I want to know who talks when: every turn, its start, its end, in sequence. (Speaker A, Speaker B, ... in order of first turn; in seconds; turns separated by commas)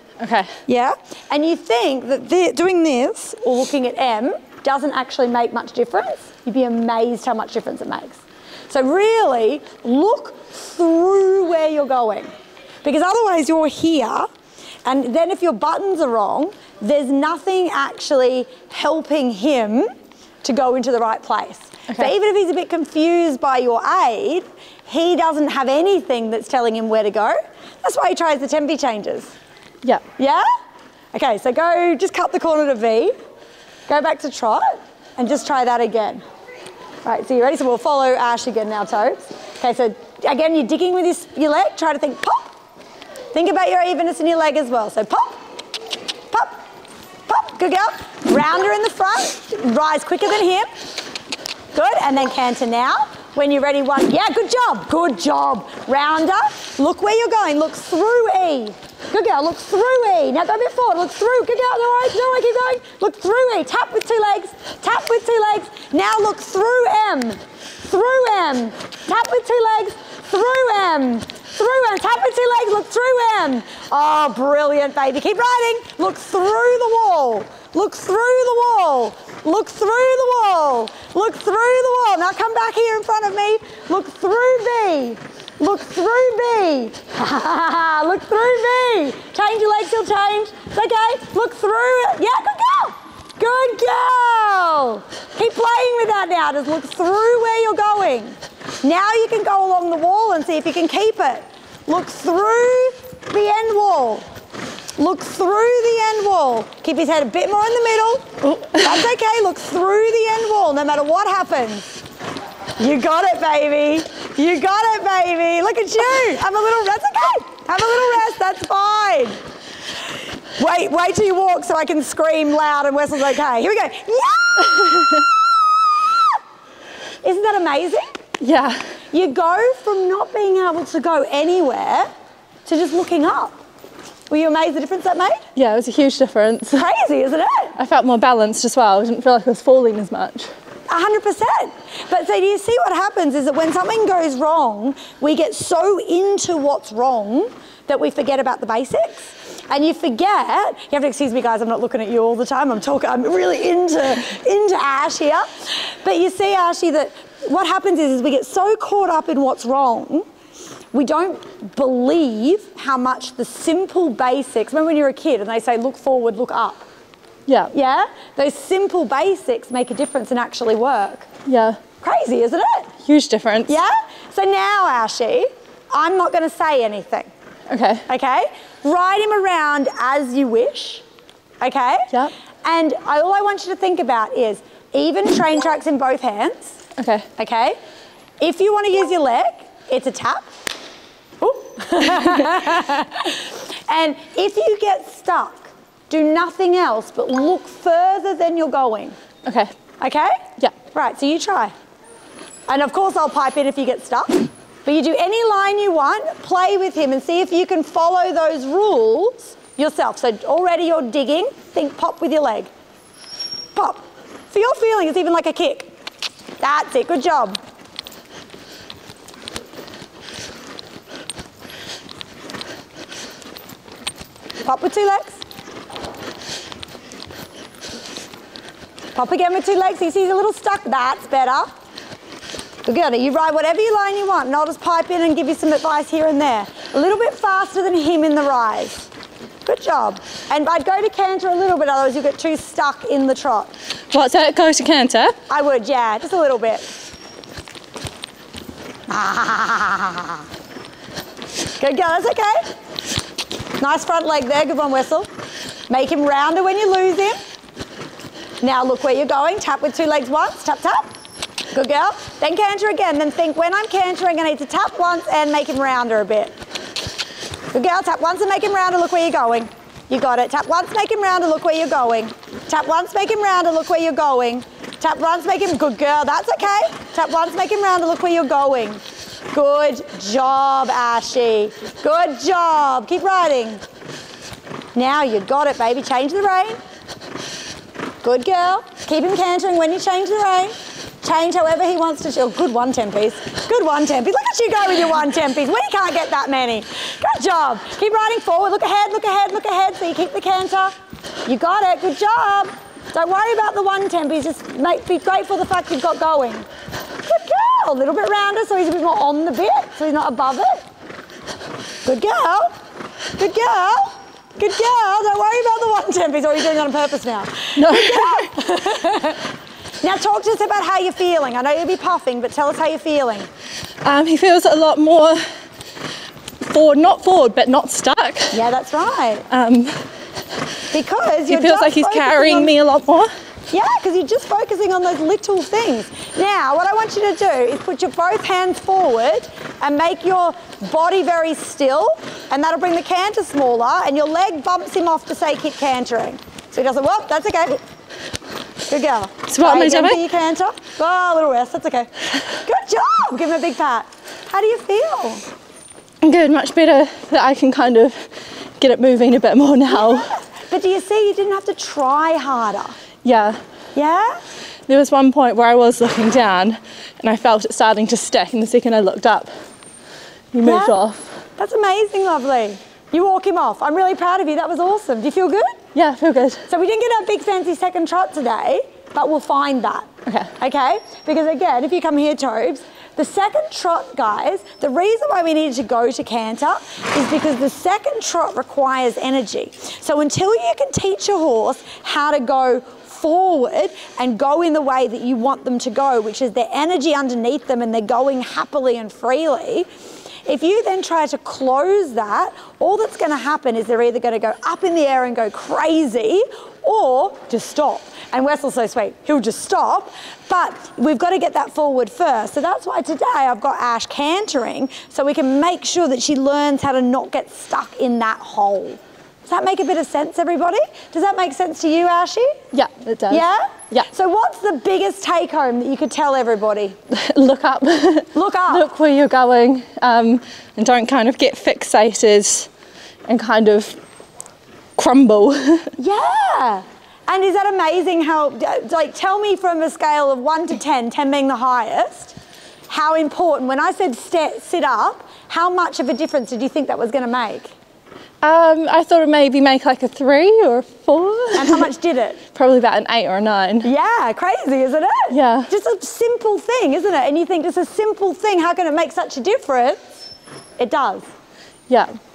Speaker A: 0.2-0.6, Speaker B: 0.7-12.3, Speaker B: 12.8-14.3, Speaker B: 14.8-19.9, Speaker B: 20.4-29.3, Speaker B: 30.2-30.5, Speaker B: 31.1-33.1, Speaker B: 33.9-36.2, Speaker B: 37.0-42.5, Speaker B: 43.3-45.4, Speaker B: 46.3-46.6, Speaker B: 47.3-50.7, Speaker B: 51.7-104.2, Speaker B: 105.0-112.0, Speaker B: 112.8-119.4, Speaker B: 120.6-125.3, Speaker B: 127.2-128.2, Speaker A: 128.4-128.9, Speaker B: 129.1-132.1, Speaker B: 132.7-133.6, Speaker B: 134.3-135.4, Speaker A: 135.6-136.9, Speaker B: 136.7-137.8, Speaker A: 137.8-140.5, Speaker B: 140.9-160.3, Speaker B: 160.9-166.8, Speaker A: 167.5-167.7, Speaker B: 167.7-171.3, Speaker A: 171.5-171.8, Speaker B: 172.0-172.9, Speaker A: 173.1-173.7, Speaker B: 173.7-177.3, Speaker A: 177.7-178.0, Speaker B: 178.1-181.0, Speaker B: 181.6-182.1, Speaker B: 182.6-186.8, Speaker A: 187.0-187.3, Speaker B: 187.4-187.8, Speaker B: 188.4-190.5, Speaker B: 191.4-199.2, Speaker A: 199.5-199.7, Speaker B: 200.0-201.7, Speaker B: 202.7-212.7, Speaker B: 213.8-215.9, Speaker B: 216.6-217.6, Speaker B: 224.6-225.4, Speaker B: 229.2-231.7, Speaker B: 232.9-239.1, Speaker B: 239.7-243.7, Speaker A: 244.1-245.4, Speaker B: 245.5-246.9, Speaker B: 249.1-250.4, Speaker B: 251.8-252.7, Speaker B: 253.8-255.3, Speaker B: 255.9-257.4, Speaker B: 258.6-261.1, Speaker B: 261.7-266.5, Speaker B: 267.7-279.0, Speaker B: 279.5-283.8, Speaker B: 284.9-286.8, Speaker B: 288.2-300.9, Speaker B: 301.5-306.7, Speaker B: 307.2-310.8, Speaker B: 312.1-312.7, Speaker B: 313.4-319.4, Speaker A: 317.8-318.5, Speaker B: 320.0-323.5, Speaker A: 324.0-325.4, Speaker A: 326.6-328.6, Speaker B: 328.5-329.5, Speaker A: 329.5-330.0, Speaker B: 330.9-332.7, Speaker A: 331.5-333.3, Speaker B: 333.7-347.8, Speaker B: 348.9-355.4, Speaker A: 349.5-350.2, Speaker A: 356.2-360.3, Speaker B: 359.9-363.0, Speaker A: 363.2-363.6, Speaker B: 363.9-364.4, Speaker A: 364.9-369.5, Speaker A: 370.5-371.4, Speaker B: 370.6-370.9, Speaker B: 371.6-375.8, Speaker A: 375.9-376.7, Speaker B: 376.7-399.9, Speaker A: 380.3-380.5, Speaker B: 400.5-422.6, Speaker A: 422.7-424.1, Speaker B: 423.3-427.0, Speaker A: 427.1-432.7, Speaker B: 428.3-428.9, Speaker A: 433.3-434.0, Speaker A: 435.0-435.9, Speaker B: 436.0-442.4, Speaker B: 442.9-447.7, Speaker A: 448.4-451.9, Speaker B: 451.6-452.4, Speaker A: 452.6-453.9, Speaker B: 453.8-460.0, Speaker A: 455.3-455.7, Speaker B: 460.8-461.3